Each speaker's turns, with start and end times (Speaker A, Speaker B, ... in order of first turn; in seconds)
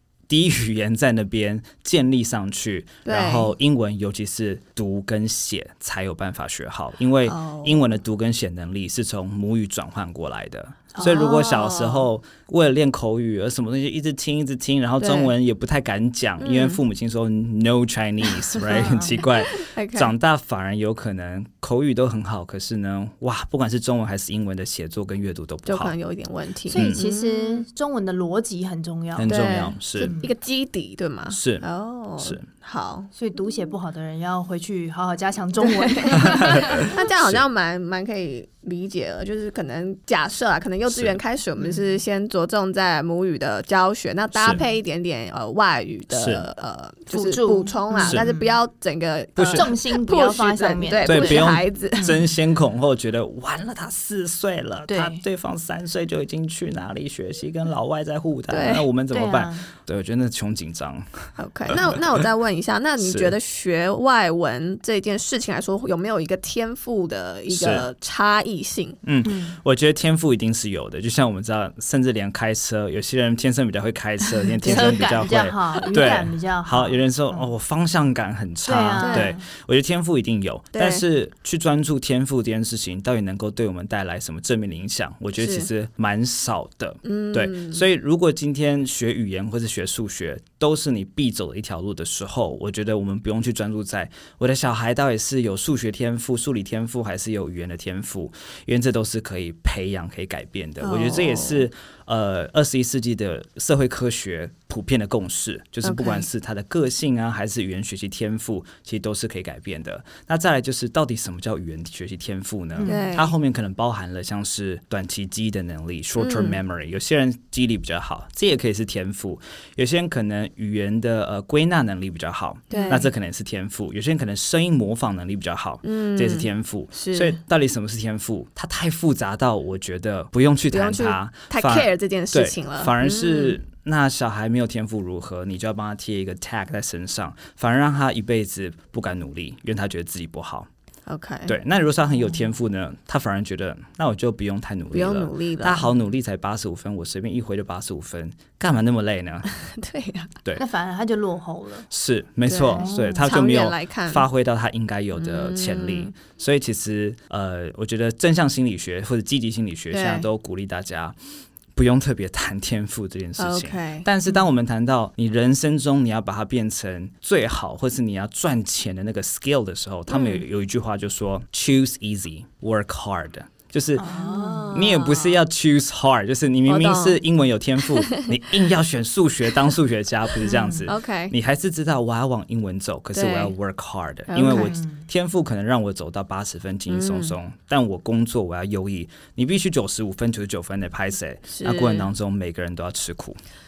Speaker A: 0.3-25.9, 26.7-27.0, 29.1-30.1, 31.3-31.6, 32.2-32.4, 36.1-37.4, 40.9-41.2, 44.3-44.6, 46.1-46.4, 49.4-49.7, 51.0-62.0, 63.0-63.3, 67.5-67.9, 69.0-140.7, 141.5-149.5, 151.9-161.2, 161.7-174.1, 174.7-193.4
Speaker B: 3.0-3.5, 7.3-7.9, 11.0-12.1, 15.0-15.3, 16.4-16.8, 18.5-20.1, 25.6-27.6, 29.3-33.1, 35.6-52.1, 58.5-58.9, 61.4-69.0, 74.6-75.2, 79.0-79.3, 80.7-81.0, 85.4-85.7, 87.0-87.8, 100.8-101.7, 105.8-106.2, 112.8-113.3, 116.2-116.6, 122.7-123.1, 125.8-127.4, 130.7-133.6, 141.1-141.5, 144.9-145.9, 149.6-150.3, 152.5-154.2, 155.2-156.1, 159.9-160.3, 163.4-164.1, 170.1-170.4, 174.1-175.4, 176.7-177.2, 177.8-178.3, 180.4-181.3, 183.2-183.5, 184.3-184.8, 186.9-187.3, 191.5-192.1
Speaker C: 10.9-11.3, 18.6-19.2, 26.7-29.3, 30.0-30.3, 33.1-37.0, 41.6-42.0, 47.1-48.5, 49.4-52.2, 54.9-55.2, 59.1-59.6, 69.2-69.6, 74.6-77.5, 78.7-79.4, 112.8-113.1, 122.7-123.0, 150.6-151.9, 152.7-153.2, 173.9-174.8, 180.4-180.9, 184.4-185.0